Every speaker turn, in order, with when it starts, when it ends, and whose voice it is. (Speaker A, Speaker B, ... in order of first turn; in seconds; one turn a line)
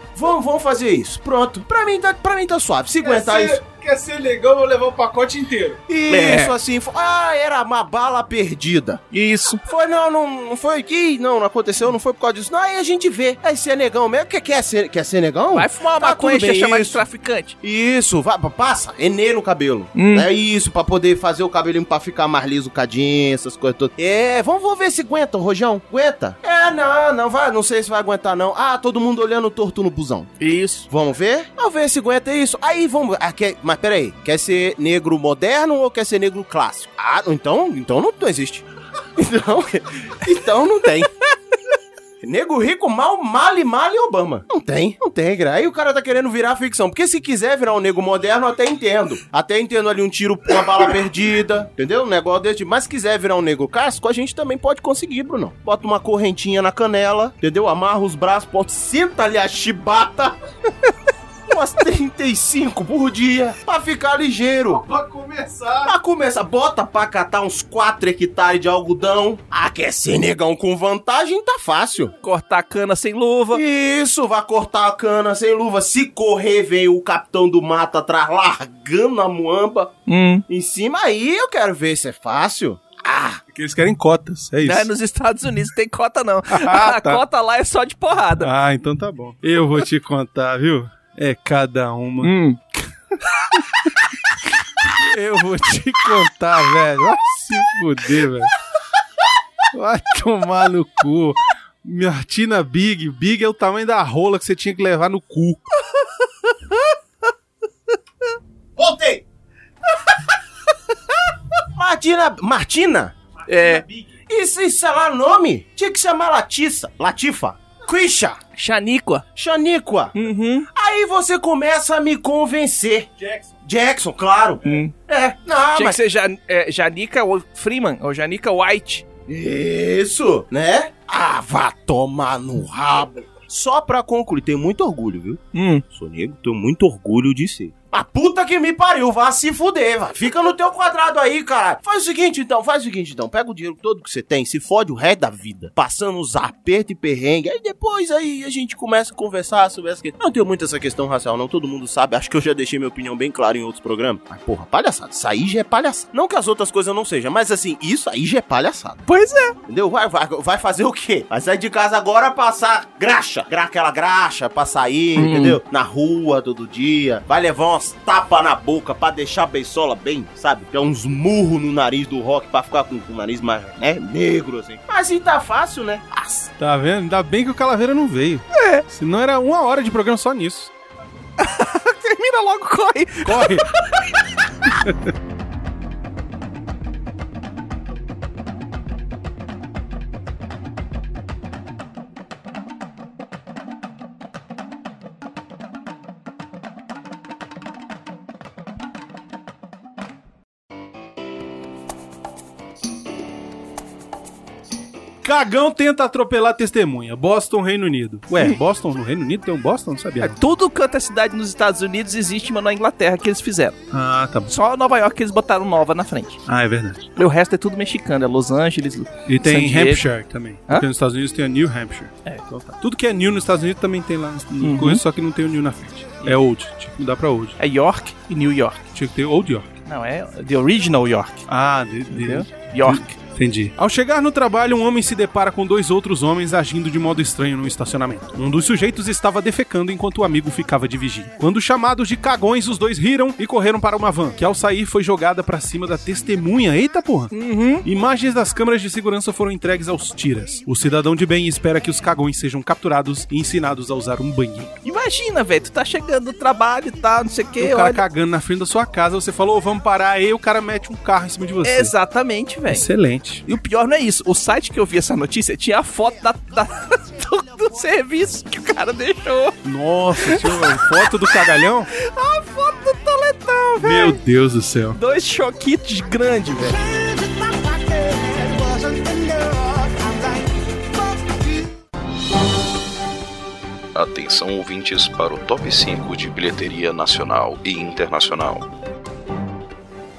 Speaker A: 0.1-3.6
Speaker B: 3.0-5.8
Speaker A: 5.9-9.1
Speaker C: 6.1-6.5
Speaker C: 9.1-9.6
Speaker A: 9.7-17.0
Speaker C: 15.5-17.6
Speaker A: 17.6-30.4
Speaker C: 19.9-20.3
Speaker C: 30.4-30.9
Speaker A: 30.9-41.1
Speaker A: 42.2-60.4
Speaker A: 61.5-64.8
Speaker B: 64.8-65.9
Speaker A: 65.8-72.1
Speaker C: 72.2-73.6
Speaker A: 73.5-79.9
Speaker C: 80.1-80.4
Speaker A: 80.5-83.4
Speaker B: 83.5-84.9
Speaker C: 84.6-88.5
Speaker B: 86.5-87.2
Speaker B: 88.4-92.3
Speaker C: 92.2-92.8
Speaker B: 94.9-98.5
Speaker B: 99.7-105.7
Speaker C: 105.9-106.8
Speaker A: 108.8-109.2
Speaker A: 111.7-113.1
Speaker C: 113.5-113.8
Speaker B: 113.5-114.2
Speaker A: 114.3-118.4
Speaker C: 118.6-119.2
Speaker A: 119.3-120.2
Speaker C: 120.1-120.7
Speaker A: 120.7-123.1
Speaker B: 123.2-123.5
Speaker A: 123.6-126.0
Speaker C: 124.7-124.9
Speaker C: 125.7-129.1
Speaker A: 129.3-159.0
Speaker C: 135.5-135.8
Speaker C: 159.1-159.6
Speaker A: 159.7-176.5
Speaker C: 165.2-165.6
Speaker B: 176.6-180.7
Speaker C: 178.5-178.8
Speaker C: 181.4-184.7
Speaker B: 183.2-183.7
Speaker B: 184.8-185.1
Speaker B: 205.2-210.4
Speaker C: 210.2-213.8
Speaker B: 213.9-214.5
Speaker C: 214.5-216.4
Speaker B: 216.5-217.1
Speaker C: 217.2-220.1
Speaker B: 219.3-222.2
Speaker C: 222.2-222.7
Speaker B: 222.7-227.6
Speaker C: 224.6-225.0
Speaker C: 227.6-228.8
Speaker B: 228.9-229.7
Speaker C: 229.9-231.4
Speaker B: 231.5-247.3
Speaker C: 232.1-233.2
Speaker C: 247.3-247.9
Speaker B: 247.8-254.8
Speaker C: 254.8-258.0
Speaker B: 257.6-261.9
Speaker C: 261.6-262.9
Speaker B: 262.7-263.5
Speaker C: 263.5-269.6
Speaker B: 269.6-271.9
Speaker C: 270.2-274.2
Speaker B: 273.8-275.0
Speaker C: 274.9-276.9
Speaker A: 277.9-280.1
Speaker D: 283.9-288.7